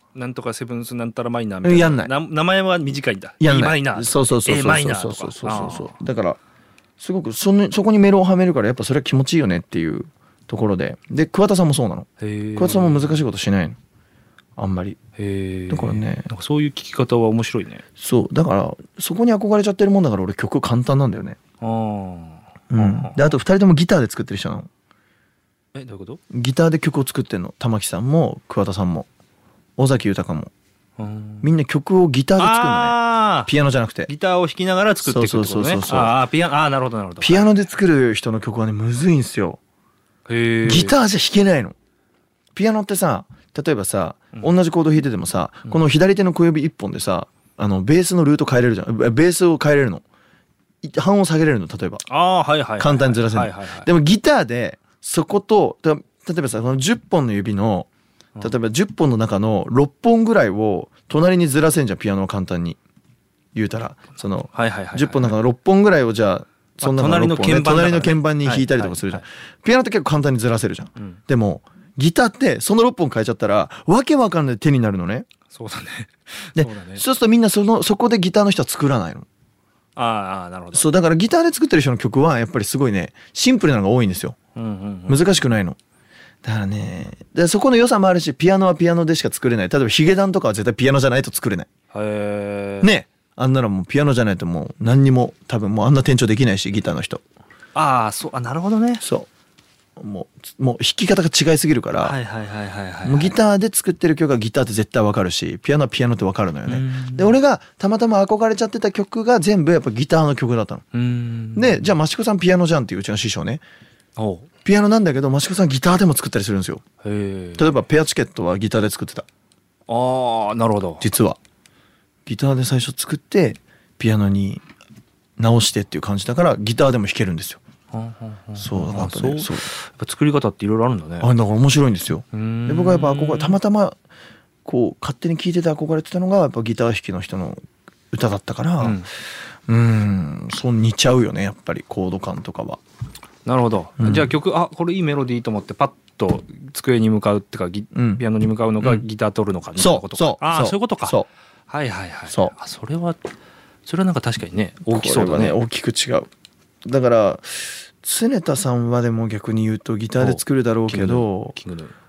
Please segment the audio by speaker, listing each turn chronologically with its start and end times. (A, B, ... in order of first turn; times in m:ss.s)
0:00.1-0:05.9 A
0:01.6-0:02.1 B
0:03.4-0:06.4 B
0:07.0-0:13.8 B
0:12.2-0:13.2 A
0:14.6-0:15.0 B
0:15.2-0:17.8 A
0:15.7-0:16.3 B
0:18.0-0:21.4 B
0:21.6-0:23.2 A
0:22.7-0:24.7 B
0:25.8-0:26.2 A
0:26.3-0:29.1 B
0:29.8-0:30.5 B
0:31.0-0:31.5 A
0:31.4-0:34.1 B
0:32.4-0:33.5 A
0:34.1-0:37.5 A
0:35.0-0:36.2 B
0:37.2-0:39.6 B
0:40.3-0:40.9 A
0:40.6-0:41.8 B
0:42.6-0:50.0 B
0:50.8-0:52.0 B
0:52.1-0:53.9 A
0:52.8-0:57.9 B
0:58.4-1:02.8 B
1:03.6-1:15.3 B
1:04.5-1:05.4 A
1:06.8-1:09.2 A
1:15.5-1:17.0 A
1:16.6-1:19.3 B
1:20.0-1:20.9 A
1:20.7-1:24.4 B
1:24.6-1:25.4 A
1:25.1-1:25.8 B
1:26.4-1:31.7 B
1:31.9-1:32.9 A
1:32.8-1:37.2 B
1:37.8-1:39.0 A
1:39.0-1:39.3 B
1:40.0-1:42.2 B
1:42.0-1:43.4 A
1:43.0-1:50.8 B
1:46.7-1:47.4 A
1:50.9-1:51.9 A
1:51.6-1:53.6 B
1:54.2-1:54.5 A
1:54.6-1:56.8 B
1:57.0-1:57.7 A
1:57.6-1:59.3 B
1:59.9-2:01.1 A
2:01.0-2:01.4 B
2:02.3-2:04.6 B
2:05.4-2:07.6 B
2:07.9-2:11.3 A
2:08.6-2:09.7 B
2:11.2-2:14.0 B
2:12.3-2:13.6 A
2:14.6-2:17.6 B
2:18.1-2:19.0 B
2:18.8-2:19.1 A
2:19.7-2:22.8 B
2:23.4-2:31.2 A
2:24.0-2:24.3 B
2:27.9-2:28.2 B
2:29.8-2:31.3 B
2:31.7-2:33.2 A
2:32.3-2:32.6 B
2:33.8-2:35.6 A
2:34.9-2:36.3 B
2:36.8-2:41.6 B
2:40.2-2:41.9 A